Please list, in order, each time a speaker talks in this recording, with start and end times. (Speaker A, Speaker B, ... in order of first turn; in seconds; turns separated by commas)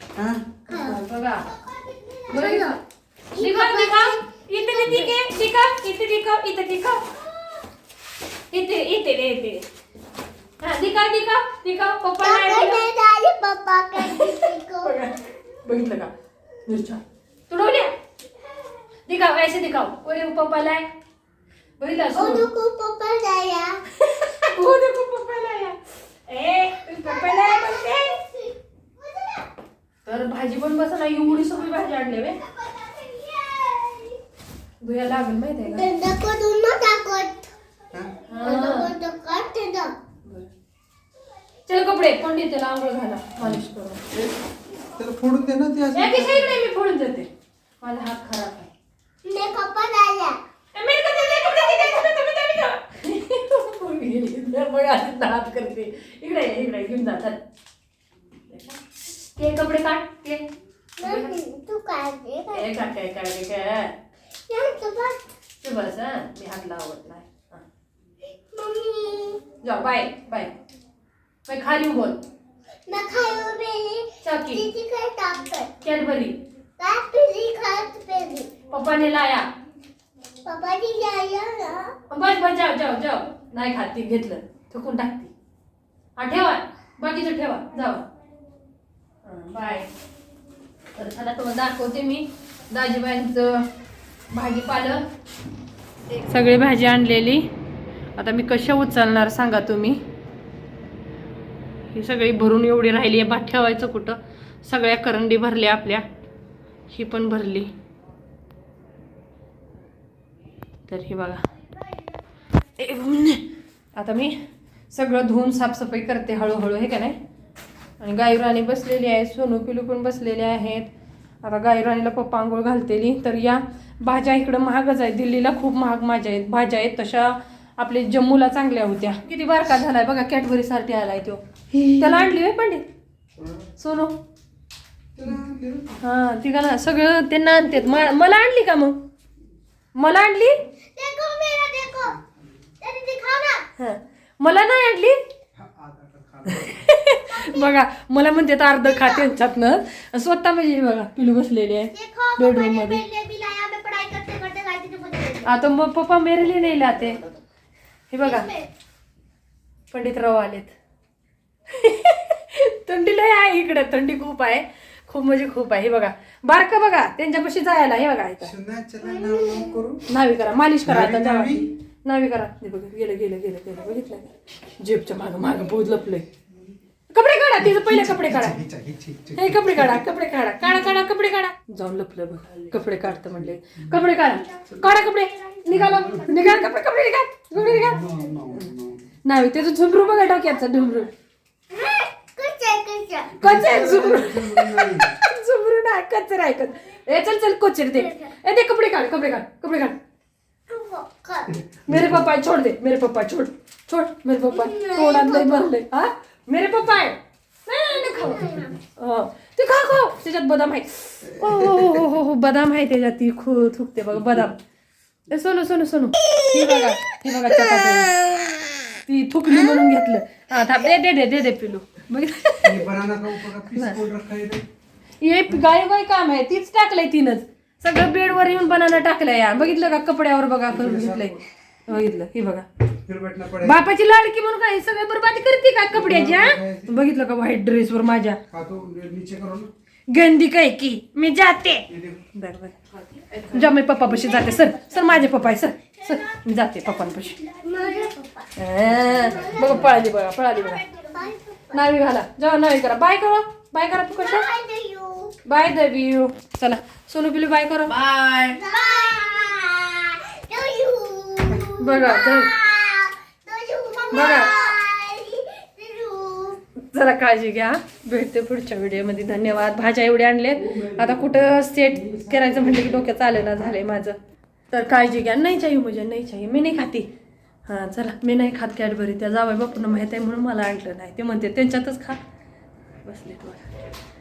Speaker A: 0.1-0.5, Speaker B: 0.7-1.5, Speaker C: 0.7-2.8, Speaker B: 2.3-2.8, Speaker C: 3.3-5.1, Speaker B: 3.4-7.1, Speaker B: 8.5-9.7, Speaker B: 10.6-12.8, Speaker C: 12.2-14.9, Speaker B: 13.9-16.1, Speaker B: 16.6-18.0, Speaker B: 19.1-20.9, Speaker B: 21.8-22.5, Speaker C: 22.1-23.8, Speaker B: 23.9-28.2, Speaker C: 26.9-29.5, Speaker B: 30.0-32.4, Speaker C: 32.4-34.2, Speaker B: 34.8-35.9, Speaker C: 35.6-37.5, Speaker B: 38.3-38.9, Speaker C: 38.4-39.9, Speaker B: 40.2-40.5, Speaker B: 41.6-44.0, Speaker A: 43.4-44.4, Speaker A: 44.9-46.7, Speaker B: 45.9-47.3, Speaker B: 47.8-48.7, Speaker C: 49.2-50.4, Speaker B: 50.7-57.4, Speaker B: 58.5-58.8, Speaker B: 59.3-60.5, Speaker C: 61.0-62.7, Speaker B: 61.0-61.4, Speaker B: 62.5-64.0, Speaker C: 64.5-65.2, Speaker B: 65.6-67.6, Speaker C: 68.5-69.4, Speaker B: 69.6-70.5, Speaker B: 71.5-72.2, Speaker C: 72.9-75.7, Speaker B: 74.2-74.6, Speaker B: 75.8-76.4, Speaker C: 76.8-78.6, Speaker B: 78.7-79.5, Speaker C: 80.4-81.9, Speaker B: 82.1-85.3, Speaker B: 86.2-88.0, Speaker B: 89.2-89.9, Speaker B: 90.9-93.7, Speaker B: 94.3-95.0, Speaker B: 96.1-97.5, Speaker B: 98.2-100.0, Speaker B: 101.9-106.0, Speaker B: 106.9-107.7, Speaker B: 110.9-111.4, Speaker B: 112.8-114.4, Speaker B: 114.9-117.2, Speaker B: 118.0-120.9, Speaker B: 121.4-132.8, Speaker A: 133.4-133.7, Speaker B: 133.8-134.2, Speaker A: 135.1-136.0, Speaker B: 136.0-139.0, Speaker B: 139.9-140.6, Speaker C: 140.9-142.2, Speaker C: 142.8-143.7, Speaker B: 143.8-145.2, Speaker A: 145.6-146.9, Speaker B: 146.4-153.0, Speaker C: 147.3-147.7, Speaker C: 148.8-149.3, Speaker C: 151.9-155.6, Speaker B: 155.4-157.2, Speaker B: 158.1-158.5, Speaker C: 158.2-158.7, Speaker B: 159.9-160.7, Speaker B: 161.7-168.5, Speaker A: 168.4-170.1, Speaker C: 169.0-169.8, Speaker B: 170.1-176.2, Speaker A: 170.8-171.7, Speaker B: 177.1-178.6, Speaker A: 177.6-180.1, Speaker B: 179.3-188.1, Speaker A: 182.6-184.0, Speaker A: 185.7-186.6, Speaker A: 187.5-189.1, Speaker B: 189.2-191.1, Speaker C: 191.7-193.3, Speaker A: 193.3-195.2, Speaker B: 193.4-200.0, Speaker C: 198.0-198.3, Speaker C: 200.7-201.5, Speaker A: 201.5-202.3, Speaker B: 201.8-214.6, Speaker C: 204.5-205.7, Speaker C: 207.9-208.8, Speaker A: 211.3-212.1, Speaker B: 215.3-218.2, Speaker B: 219.1-222.8, Speaker A: 222.6-224.6, Speaker B: 223.7-224.0, Speaker B: 225.2-232.7, Speaker A: 230.7-231.3, Speaker A: 233.1-233.8, Speaker B: 233.6-238.4, Speaker A: 235.9-237.0, Speaker A: 238.5-239.7, Speaker B: 240.1-242.8, Speaker A: 241.9-242.3, Speaker B: 243.4-247.4, Speaker C: 244.1-244.9, Speaker C: 246.0-246.4, Speaker C: 246.9-249.9, Speaker B: 248.6-250.8, Speaker A: 248.8-249.9, Speaker C: 250.5-251.8, Speaker B: 251.7-254.4, Speaker C: 254.2-255.3, Speaker B: 255.4-258.5, Speaker C: 258.5-266.6, Speaker B: 261.8-262.5, Speaker B: 264.1-264.5, Speaker B: 266.8-274.2, Speaker A: 270.5-273.7, Speaker B: 274.7-277.1, Speaker B: 277.6-282.2, Speaker B: 283.0-283.7